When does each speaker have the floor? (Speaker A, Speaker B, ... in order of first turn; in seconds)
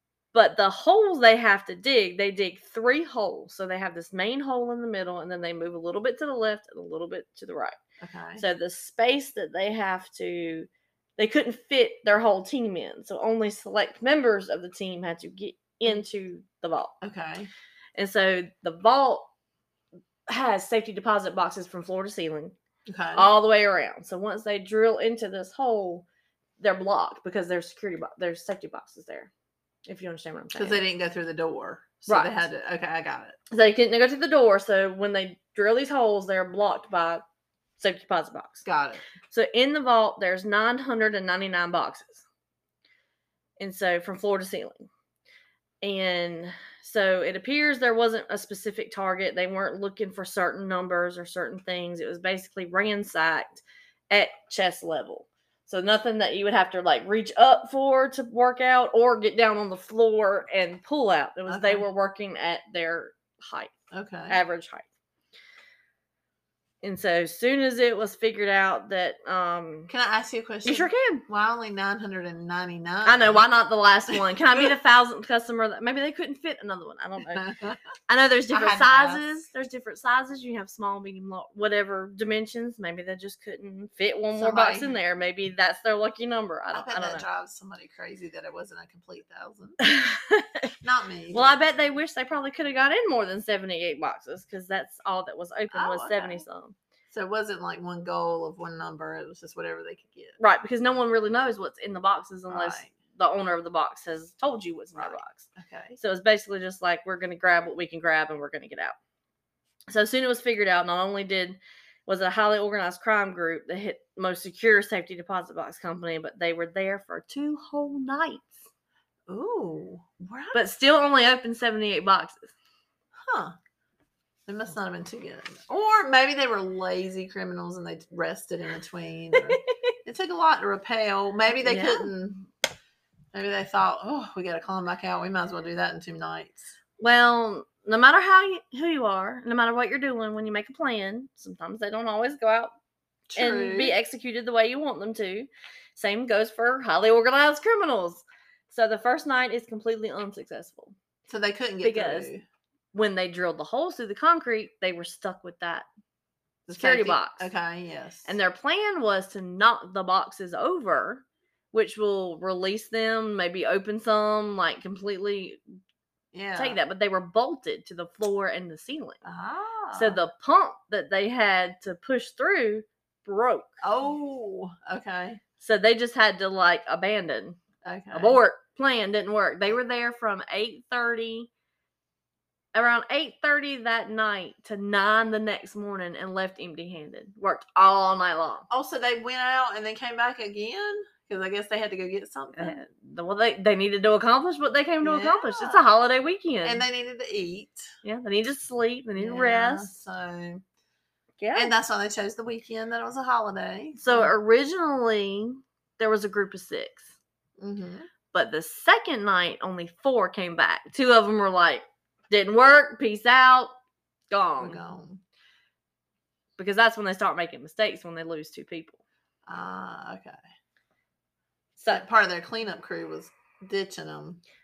Speaker A: 0.3-7.8, 8.4-16.9, 17.9-19.3, 20.3-22.5, 23.1-26.1, 26.6-29.3, 29.9-30.8, 32.1-32.3, 33.5-37.2, 37.8-38.6, 39.3-42.2, 43.6-44.9, 45.8-63.7, 64.3-64.8, 66.8-69.9, 70.6-71.2, 73.0-77.4, 78.1-87.2, 89.8-90.7, 91.3-96.8, 100.4-109.0, 109.9-118.5, 120.5-122.5, 129.3-129.6, 131.6-132.1, 137.0-142.7, 143.3-150.9, 151.8-152.3, 152.9-155.9, 156.8-157.5, 158.2-165.6, 166.6-169.2, 169.9-173.8, 175.6-177.6, 178.1-181.5, 182.7-188.7, 192.6-196.8, 198.0-199.9, 201.4-201.7, 204.0-207.1, 208.3-213.7, 214.3-214.8, 216.6-219.0, 221.8-222.0
Speaker B: 8.0-8.4, 17.0-17.5, 22.9-23.3, 30.6-33.4, 38.6-39.0, 61.5-61.8, 63.9-64.4, 69.9-73.4, 74.1-74.7, 77.3-77.8, 78.5-79.3, 84.3-84.9, 86.7-89.8, 90.8-91.5, 95.7-96.4, 97.1-100.4, 102.5-102.9, 105.0-106.0, 119.3-120.6, 123.3-123.5, 124.5-132.4, 133.3-136.8, 143.3-143.9, 151.3-152.4, 156.7-158.3, 166.3-166.8, 169.2-170.2, 173.8-175.4, 177.8-178.4, 188.7-192.8, 195.0-195.9, 196.6-197.9, 199.2-200.6, 201.5-204.3, 207.6-208.1, 214.6-215.2, 219.5-220.4, 221.9-224.4